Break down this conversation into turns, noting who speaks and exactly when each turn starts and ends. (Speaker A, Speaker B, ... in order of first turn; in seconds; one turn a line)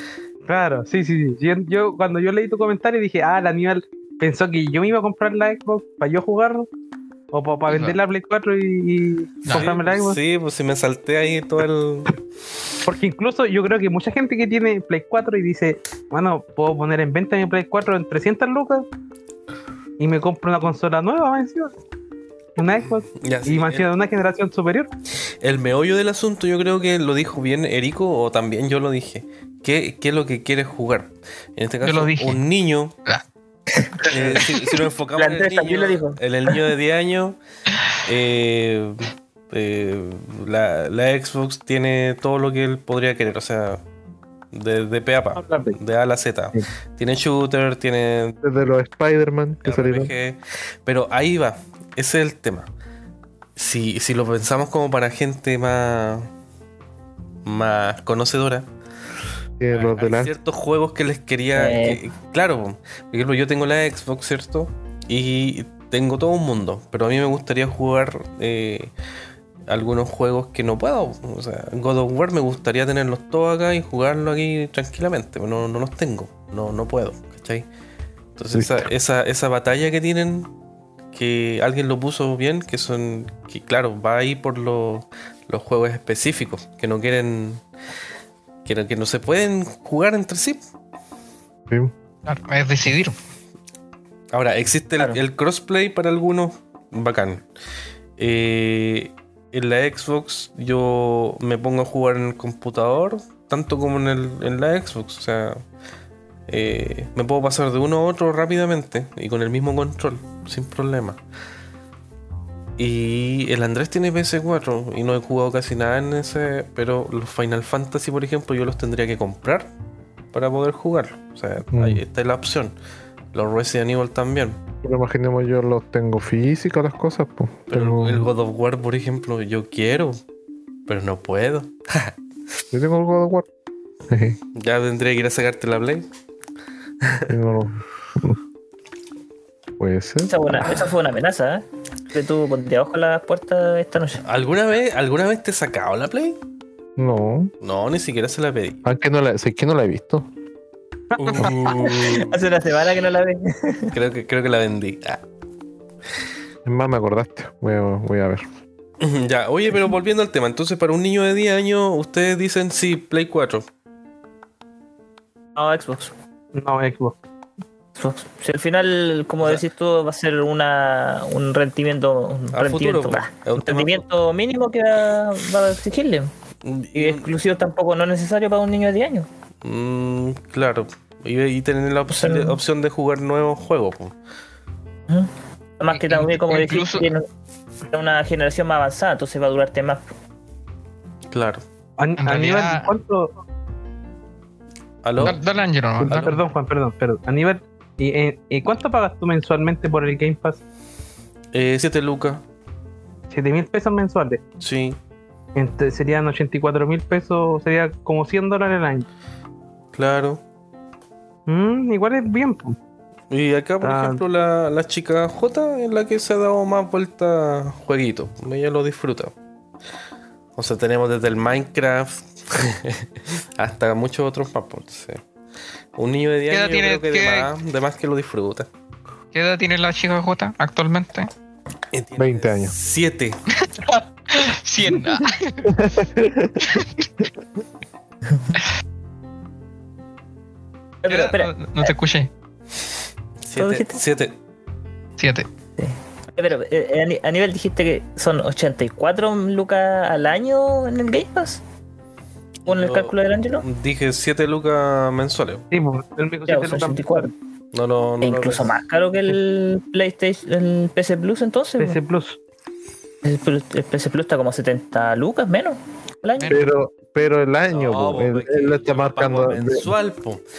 Speaker A: 0.5-6.7
Speaker A: 7.3-10.2
Speaker B: 7.7-8.0
Speaker C: 9.5-12.2
Speaker A: 12.9-18.9
Speaker A: 20.0-21.7
Speaker A: 22.6-24.9
Speaker C: 23.1-23.9
Speaker C: 25.4-33.0
Speaker B: 31.8-32.4
Speaker D: 33.8-34.1
Speaker C: 34.1-37.4
Speaker D: 35.2-36.2
Speaker C: 38.0-43.8
Speaker C: 44.5-48.4
Speaker A: 45.4-45.8
Speaker E: 48.4-50.1
Speaker C: 49.6-52.7
Speaker C: 53.6-56.3
Speaker C: 57.5-58.7
Speaker E: 59.6-60.3
Speaker C: 59.7-68.9
Speaker D: 61.5-62.0
Speaker C: 69.7-77.7
Speaker C: 78.4-80.5
Speaker E: 78.5-78.9
Speaker C: 81.1-87.6
Speaker C: 88.7-90.6
Speaker B: 92.3-93.2
Speaker C: 94.3-97.5
Speaker C: 98.2-105.6
Speaker C: 106.5-111.2
Speaker C: 112.8-119.7
Speaker C: 120.3-122.8
Speaker E: 121.7-122.0
Speaker C: 123.3-124.6
Speaker E: 124.8-128.3
Speaker C: 127.7-130.2
Speaker C: 130.9-132.1
Speaker E: 132.7-133.5
Speaker E: 134.1-134.4
Speaker C: 134.6-136.1
Speaker C: 137.0-137.3
Speaker E: 137.3-138.4
Speaker E: 139.8-140.3
Speaker D: 140.3-144.2
Speaker C: 144.2-146.4
Speaker E: 147.0-147.5
Speaker C: 147.6-148.8
Speaker E: 148.8-150.3
Speaker C: 151.2-152.4
Speaker A: 151.2-151.6
Speaker D: 151.4-153.9
Speaker C: 153.9-155.2
Speaker E: 156.7-158.4
Speaker C: 159.0-163.7
Speaker D: 165.6-166.1
Speaker A: 166.5-167.2
Speaker D: 168.0-176.3
Speaker C: 172.5-174.0
Speaker C: 176.6-177.3
Speaker D: 176.9-179.3
Speaker C: 179.6-184.1
Speaker D: 182.1-182.6
Speaker D: 185.1-187.3
Speaker B: 185.9-187.1
Speaker D: 187.9-190.0
Speaker C: 191.3-191.6
Speaker A: 192.0-193.3
Speaker B: 192.2-192.9
Speaker C: 195.0-195.4
Speaker B: 195.2-196.4
Speaker A: 196.0-200.6
Speaker C: 196.1-196.4
Speaker C: 201.5-202.4
Speaker A: 203.3-204.4
Speaker C: 204.6-205.0
Speaker A: 205.6-209.1
Speaker C: 209.9-210.4
Speaker A: 211.5-212.8
Speaker C: 213.3-219.3
Speaker A: 213.8-214.2
Speaker C: 220.6-225.2
Speaker C: 226.0-228.7
Speaker B: 226.5-227.5
Speaker B: 229.3-231.3
Speaker C: 231.9-233.4
Speaker E: 232.2-232.7
Speaker B: 233.6-235.8
Speaker E: 235.7-236.8
Speaker B: 236.6-237.1
Speaker D: 241.0-241.9
Speaker B: 241.1-242.3
Speaker C: 243.4-244.3
Speaker D: 243.6-244.0
Speaker B: 245.2-245.5
Speaker D: 245.8-251.6
Speaker C: 252.7-255.7
Speaker D: 252.7-253.7
Speaker A: 255.7-257.3
Speaker D: 256.5-257.3
Speaker C: 257.7-258.8
Speaker D: 258.2-262.0
Speaker A: 261.8-262.4
Speaker D: 263.2-266.6
Speaker E: 266.5-269.9
Speaker C: 267.7-270.4